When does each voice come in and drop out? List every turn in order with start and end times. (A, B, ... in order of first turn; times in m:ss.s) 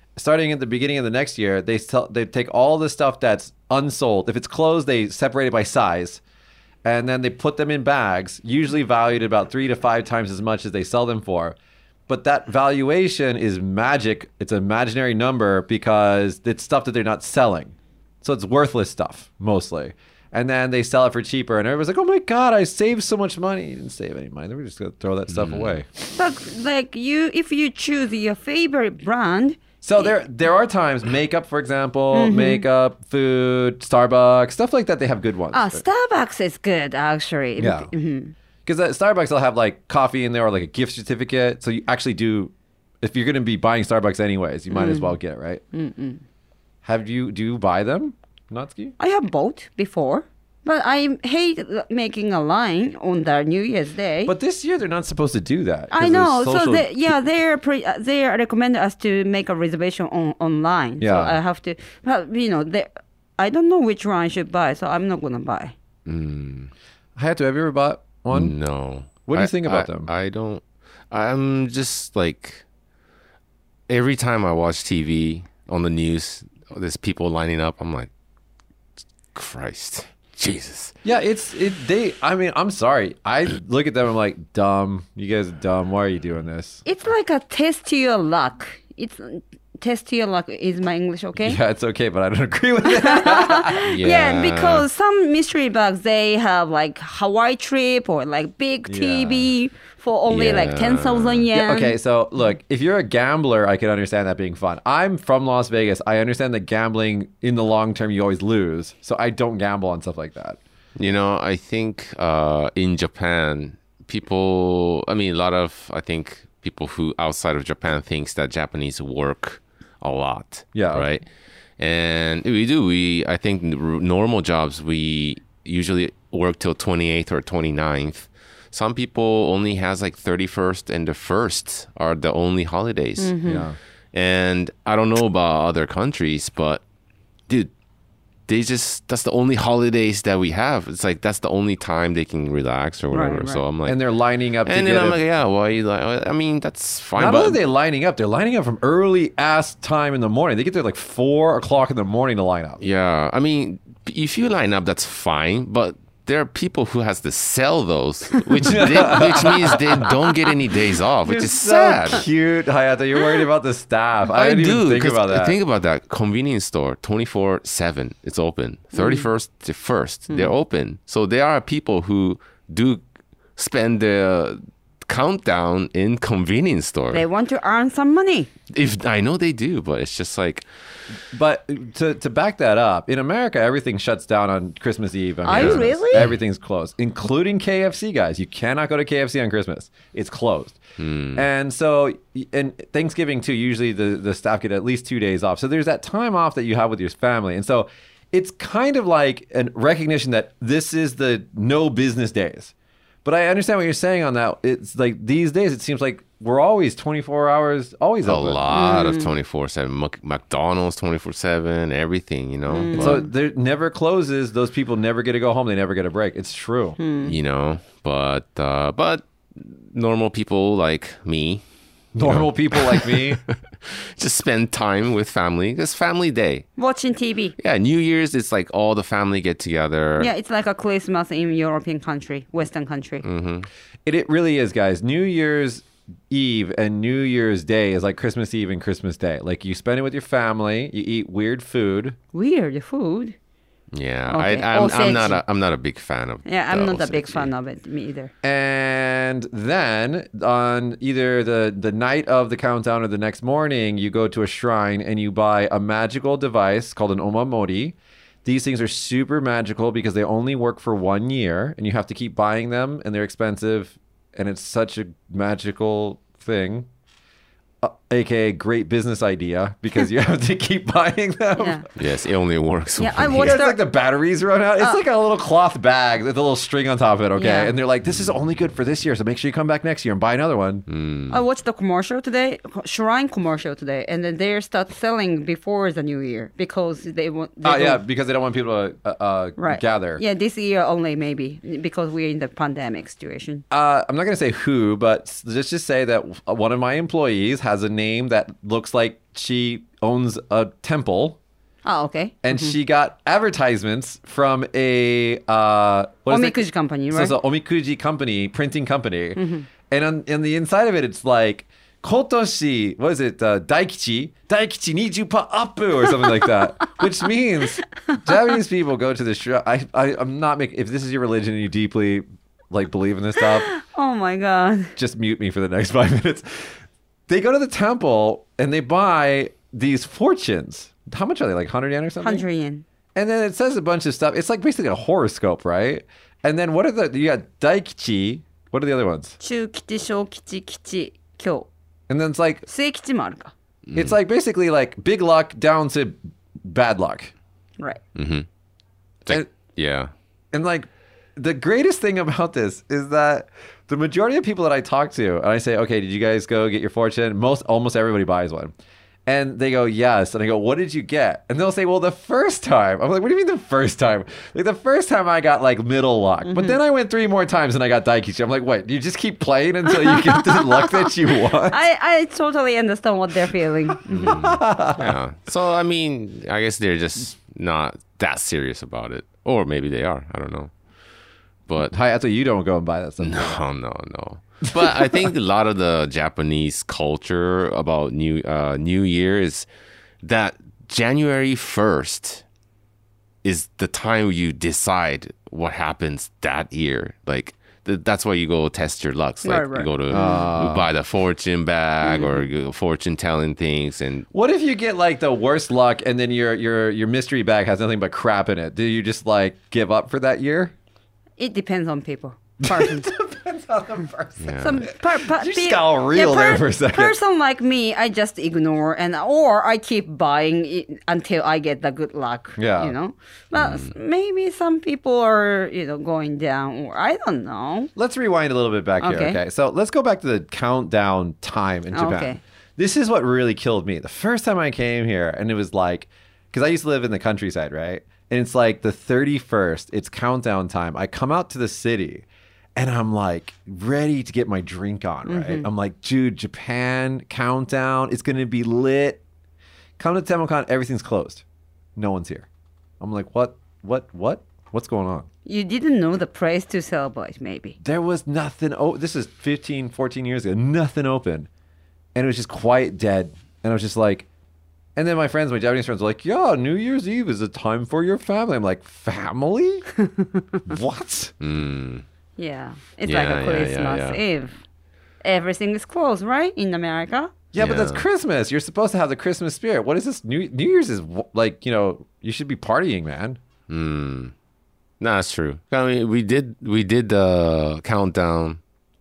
0:00.2-0:06.2 A
0:06.8-0:11.6 A
0:12.1-0:25.9 A
0:25.3-0:25.8 B
0:26.1-0:30.1 C
0:29.8-0:35.8 A
0:32.1-0:32.6 C
0:35.5-0:38.3 C
0:37.6-0:37.9 A
0:38.6-0:45.6 A
0:44.7-0:45.2 C
0:45.7-0:46.2 C
0:46.8-0:48.9 A
0:49.0-0:54.3 C
0:54.2-0:56.9 A
0:55.9-1:05.7 C
1:01.0-1:01.4 A
1:06.0-1:06.7 B
1:07.2-1:08.5 A
1:08.3-1:12.6 B
1:09.2-1:10.1 A
1:13.9-1:18.1 B
1:19.3-1:20.9 B
1:21.0-1:26.8 A
1:26.8-1:31.6 C
1:31.4-1:33.9 A
1:32.9-1:42.0 C
1:33.8-1:34.8 B
1:38.9-1:39.5 A
1:40.3-1:41.4 B
1:41.5-1:50.6 A
1:51.0-2:01.3 B
2:00.7-2:01.0 A
2:01.8-2:13.4 B
2:13.2-2:13.7 C
2:13.4-2:13.8 A
2:14.1-2:16.8 B
2:18.5-2:24.0 B
2:23.1-2:23.6 C
2:23.8-2:25.2 A
2:24.6-2:27.6 B
2:27.2-2:32.8 A
2:32.8-2:42.3 B
2:38.6-2:40.1 A
2:41.2-2:45.6 A
2:44.3-2:53.0 B
2:48.9-2:49.3 C
2:53.6-2:57.2 B
2:57.1-2:58.5 C
2:58.7-3:00.7 B
3:01.3-3:10.8 A
3:05.4-3:06.3 C
3:05.5-3:06.4 B
3:11.0-3:11.4 B
3:11.3-3:22.7 A
3:23.2-3:28.7 A
3:28.2-3:33.2 B
3:28.7-3:29.3 C
3:32.7-3:33.3 C
3:32.9-3:37.0 A
3:37.0-3:37.4 C
3:37.2-3:41.6 B
3:42.1-3:43.4 A
3:42.2-3:46.7 B
3:46.8-3:47.6 C
3:47.6-3:50.3 B
3:50.2-3:53.2 C
3:53.2-3:53.7 B
3:54.0-4:02.2 A
4:02.3-4:03.3 C
4:03.9-4:07.5 B
4:04.3-4:05.4 C
4:06.4-4:08.3 C
4:08.4-4:26.9 A
4:27.8-4:31.8 A
4:31.6-4:31.8 C
4:31.9-4:33.6 B
4:33.0-4:33.8 C
4:33.4-4:40.8 A
4:37.4-4:37.7 C
4:40.9-4:41.4 B
4:41.3-4:48.0 C
4:47.6-4:50.2 A
4:49.6-4:53.6 C
4:53.7-5:01.4 A
5:01.8-5:02.8 C
5:02.4-5:23.7 A
5:06.3-5:07.3 C
5:09.4-5:09.7 C
5:23.7-5:24.9 C
5:25.0-5:26.8 A
5:27.3-5:32.4 A
5:32.2-5:32.8 C
5:33.1-5:39.4 A
5:39.4-5:41.7 C
5:42.1-5:42.7 A
5:42.7-5:43.5 C
5:43.9-5:44.1 B
5:43.9-5:47.3 A
5:48.1-5:48.5 B
5:49.2-5:50.1 B
5:50.5-5:58.7 A
5:59.2-6:11.8 A
6:06.4-6:06.8 C
6:10.0-6:14.4 C
6:14.1-6:20.7 B
6:14.2-6:15.2 A
6:21.7-6:21.9 B
6:21.8-6:23.6 A
6:23.2-6:29.7 B
6:24.8-6:25.3 A
6:30.2-6:32.4 B
6:33.4-6:44.3 B
6:39.4-6:40.4 C
6:40.1-6:40.9 A
6:42.0-6:42.5 C
6:44.3-6:50.7 A
6:51.4-6:53.2 C
6:52.6-6:57.2 A
6:54.4-6:54.8 B
6:54.6-7:07.9 C
7:02.6-7:02.9 A
7:03.6-7:03.9 B
7:08.0-7:22.2 A
7:09.0-7:09.4 C
7:11.9-7:12.4 C
7:22.8-7:29.2 A
7:25.2-7:25.7 C
7:30.0-7:31.4 A
7:32.0-7:32.5 A
7:33.0-7:35.3 A
7:35.4-7:37.8 C
7:37.8-7:41.5 A
7:42.1-7:44.3 A
7:45.0-7:49.9 A
7:50.7-7:51.3 A
7:51.4-7:52.0 B
7:52.4-7:54.6 C
7:53.0-7:54.2 B
7:55.2-7:57.3 C
7:57.5-8:03.4 A
7:57.6-7:58.0 B
8:03.7-8:04.3 B
8:05.0-8:08.6 B